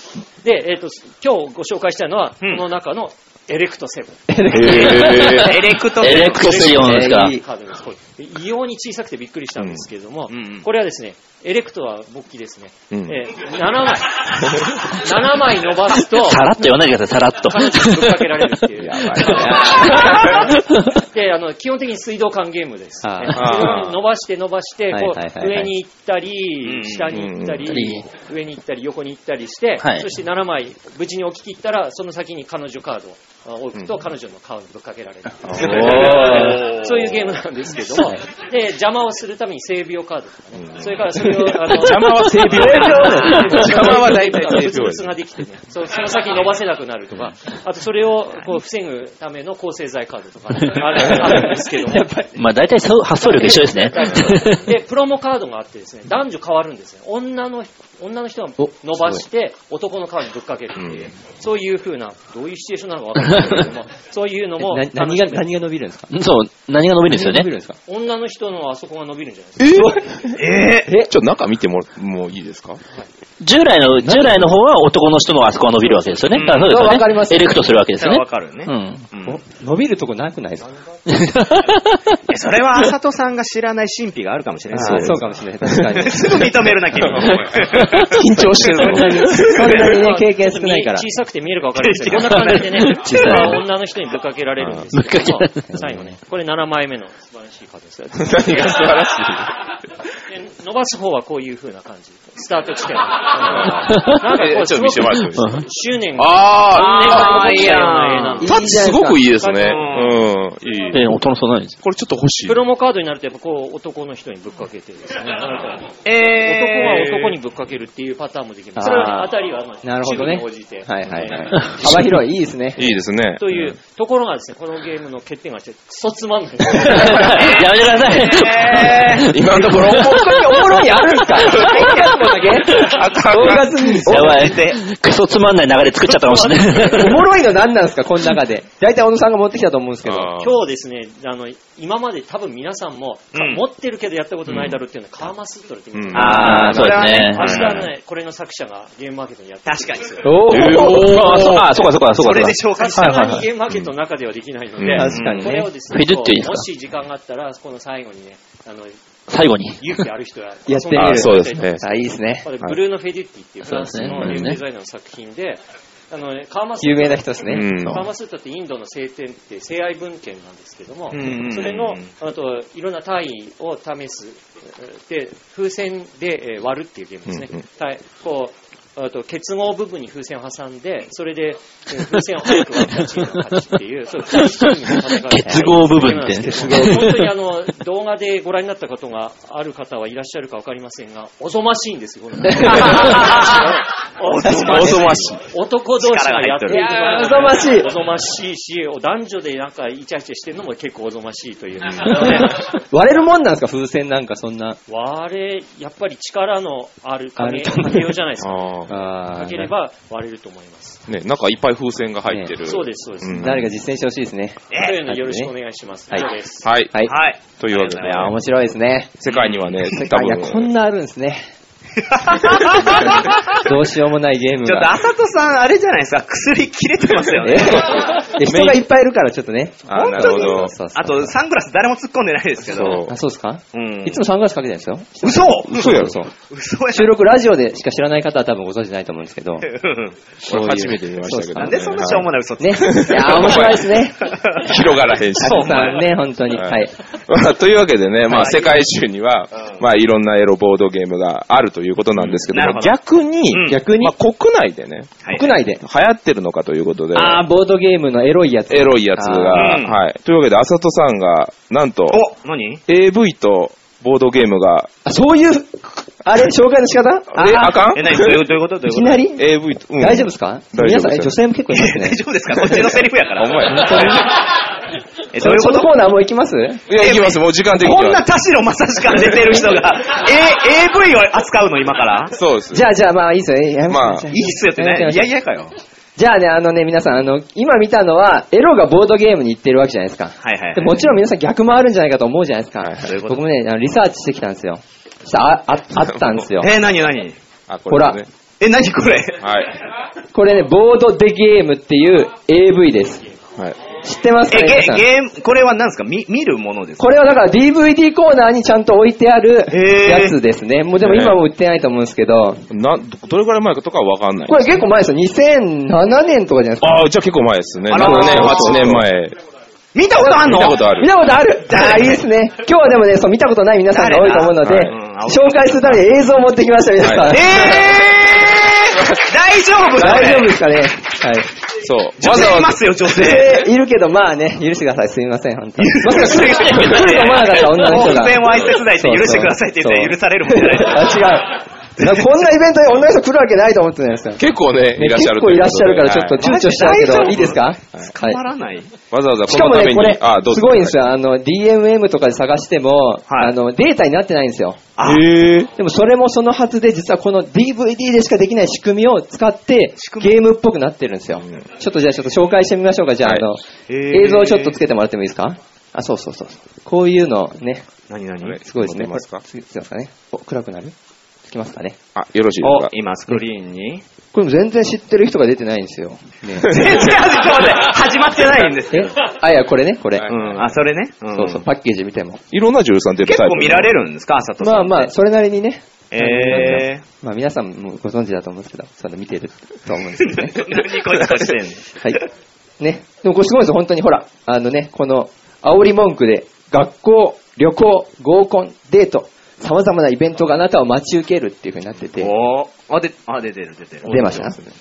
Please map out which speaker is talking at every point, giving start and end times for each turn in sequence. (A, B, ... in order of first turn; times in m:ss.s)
0:00.4-0:04.8 A
0:04.3-0:05.6 B
0:04.5-0:05.6 C
0:04.8-0:06.6 D
0:06.0-0:07.4 E
0:06.1-0:16.6 A
0:06.7-0:07.4 B
0:10.3-0:10.6 D
0:12.9-0:13.2 C
0:16.1-0:18.3 E
0:17.5-0:52.1 A
0:18.8-0:20.3 C
0:19.3-0:19.9 B
0:19.4-0:21.0 E
0:23.0-0:23.8 B
0:23.3-0:24.0 C
0:24.9-0:25.7 B
0:26.6-0:27.1 D
0:27.1-0:27.7 C
0:27.7-0:28.1 E
0:29.8-0:30.1 E
0:35.5-0:36.4 C
0:35.6-0:37.3 D
0:35.9-0:36.6 E
0:40.6-0:45.1 C
0:42.3-0:44.2 B
0:51.0-0:52.5 B
0:52.4-0:54.7 E
0:53.2-1:05.5 A
0:58.6-0:59.2 B
1:00.8-1:01.1 C
1:04.6-1:06.1 B
1:06.1-1:07.5 E
1:07.1-1:07.8 B
1:07.9-1:10.0 A
1:09.6-1:09.9 C
1:09.7-1:11.1 B
1:10.4-1:10.9 D
1:11.0-1:12.8 C
1:13.4-1:19.1 E
1:14.1-1:14.4 B
1:16.3-1:16.9 D
1:16.5-1:17.6 B
1:18.0-1:19.4 D
1:19.2-1:20.7 B
1:21.1-1:22.2 E
1:22.3-1:30.0 D
1:24.7-1:26.6 B
1:24.8-1:25.2 C
1:26.9-1:29.7 C
1:28.4-1:31.1 B
1:29.7-1:39.0 A
1:31.8-1:33.0 D
1:32.4-1:33.6 E
1:33.0-1:33.4 B
1:34.6-1:34.9 C
1:34.9-1:35.7 E
1:38.2-1:39.5 C
1:40.3-1:48.5 A
1:43.5-1:45.6 C
1:43.8-1:44.2 E
1:45.3-1:45.6 E
1:46.2-1:47.8 C
1:46.7-1:48.5 D
1:48.4-1:49.2 B
1:48.4-1:51.1 C
1:49.4-1:50.0 A
1:49.6-1:50.2 D
1:50.9-1:51.8 E
1:51.8-1:52.6 C
1:52.4-2:01.7 A
1:56.0-1:57.4 D
1:58.8-2:02.9 B
2:02.8-2:03.8 C
2:02.8-2:07.7 A
2:06.7-2:10.6 E
2:08.0-2:09.3 D
2:09.2-2:12.1 C
2:09.5-2:14.5 B
2:11.3-2:12.5 D
2:12.6-2:14.1 C
2:13.4-2:14.8 D
2:14.1-2:17.1 E
2:16.0-2:17.2 A
2:16.9-2:20.3 B
2:20.0-2:20.6 C
2:20.4-2:30.4 A
2:23.3-2:23.6 D
2:24.5-2:24.8 C
2:25.9-2:27.9 C
2:26.1-2:27.9 D
2:26.1-2:27.6 E
2:26.2-2:26.9 B
2:29.7-2:30.4 D
2:30.2-2:31.6 B
2:30.5-2:31.8 C
2:30.5-2:33.4 E
2:32.0-2:33.4 D
2:32.6-2:38.9 A
2:34.8-2:35.1 C
2:34.9-2:35.7 B
2:35.1-2:35.4 D
2:35.9-2:36.6 E
2:39.3-2:39.8 E
2:39.8-3:22.6 A
2:40.7-2:42.5 B
2:40.9-2:41.9 C
2:43.7-2:44.6 E
2:46.8-2:47.7 B
2:47.5-2:48.1 C
2:51.1-2:52.1 D
2:57.3-2:57.6 C
3:04.4-3:07.3 E
3:06.4-3:07.1 B
3:12.4-3:13.2 B
3:12.8-3:13.5 D
3:14.2-3:15.4 D
3:14.4-3:15.3 B
3:14.5-3:15.4 C
3:16.0-3:17.2 D
3:16.7-3:17.9 B
3:21.9-3:22.2 C
3:22.4-3:24.8 B
3:24.9-3:31.0 A
3:27.4-3:28.1 B
3:28.4-3:29.0 C
3:28.9-3:29.7 B
3:31.1-3:33.7 C
3:32.3-3:32.5 B
3:32.6-3:33.6 A
3:33.4-3:35.5 B
3:34.7-3:35.0 D
3:34.7-3:36.7 A
3:36.6-3:38.4 C
3:37.0-3:38.3 D
3:38.0-3:39.1 B
3:39.2-3:40.7 C
3:39.3-3:39.9 D
3:39.9-3:41.4 B
3:42.0-3:43.6 D
3:42.6-3:44.9 B
3:44.6-3:48.1 D
3:47.4-3:51.3 B
3:48.4-3:48.8 C
3:49.9-3:50.7 C
3:50.0-3:53.0 D
3:52.7-3:53.1 C
3:52.7-3:56.3 B
3:53.7-3:54.2 D
3:55.2-3:57.2 D
3:55.7-3:56.2 C
3:56.9-3:59.7 B
3:59.6-4:00.3 D
4:00.4-4:01.8 B
4:00.5-4:03.8 C
4:01.6-4:04.7 D
4:02.6-4:04.3 B
4:04.5-4:05.9 C
4:05.4-4:06.9 B
4:05.4-4:06.0 D
4:06.5-4:15.2 C
4:08.3-4:08.9 D
4:09.6-4:09.8 D
4:12.2-4:12.9 D
4:13.1-4:14.1 B
4:13.5-4:13.8 D
4:15.3-4:15.8 B
4:15.8-4:17.4 C
4:17.1-4:19.8 B
4:18.7-4:22.2 C
4:19.5-4:20.0 D
4:22.1-4:22.8 D
4:22.9-4:24.9 C
4:25.0-4:27.8 B
4:27.4-4:28.4 C
4:27.9-4:29.2 D
4:28.9-4:32.2 B
4:29.4-4:31.3 C
4:31.7-4:34.3 D
4:32.6-4:34.3 C
4:33.6-4:34.3 B
4:35.3-4:35.9 D
4:35.4-4:36.8 B
4:36.9-4:38.2 C
4:37.0-4:42.3 D
4:42.3-4:42.9 C
4:42.7-4:45.3 B
4:43.9-4:44.3 C
4:44.3-4:45.8 D
4:46.2-4:56.7 B
4:50.4-4:51.1 D
4:52.8-4:53.1 C
4:53.0-4:53.4 D
4:56.6-4:57.4 D
4:57.7-4:58.3 C
4:57.9-4:58.2 B
4:58.6-4:59.4 D
4:59.4-4:59.8 C
5:00.3-5:03.2 B
5:04.0-5:05.1 B
5:04.5-5:07.1 D
5:07.0-5:12.6 B
5:09.7-5:10.4 D
5:11.0-5:11.4 C
5:12.7-5:14.8 C
5:14.5-5:17.0 B
5:16.8-5:19.4 C
5:17.9-5:19.0 D
5:17.9-5:19.1 B
5:19.9-5:20.8 D
5:20.2-5:28.1 B
5:20.4-5:21.1 C
5:21.7-5:22.2 D
5:23.9-5:26.0 D
5:24.6-5:24.9 C
5:27.0-5:27.8 C
5:27.2-5:30.5 D
5:29.9-5:31.5 B
5:31.8-5:32.8 C
5:32.2-5:33.6 D
5:33.1-5:44.4 B
5:35.8-5:41.2 D
5:44.4-5:46.4 C
5:45.0-5:48.4 B
5:46.4-5:48.9 D
5:49.1-5:51.0 C
5:49.4-5:54.9 B
5:53.3-5:53.6 D
5:55.0-5:55.3 D
5:55.0-5:55.7 C
5:55.8-6:07.8 B
6:00.0-6:00.4 D
6:03.9-6:04.8 D
6:08.1-6:08.6 D
6:08.4-6:09.4 C
6:08.6-6:10.9 B
6:11.4-6:12.0 B
6:12.1-6:12.9 C
6:12.6-6:14.0 D
6:14.3-6:17.1 B
6:16.6-6:19.2 D
6:18.9-6:20.3 B
6:20.2-6:20.6 C
6:20.3-6:21.6 D
6:21.3-6:22.4 B
6:22.5-6:23.9 C
6:23.2-6:25.1 D
6:24.6-6:30.7 B
6:26.1-6:27.0 D
6:30.2-6:32.2 D
6:32.8-6:42.3 B
6:42.2-6:44.5 D
6:44.1-6:44.6 B
6:44.2-6:44.6 C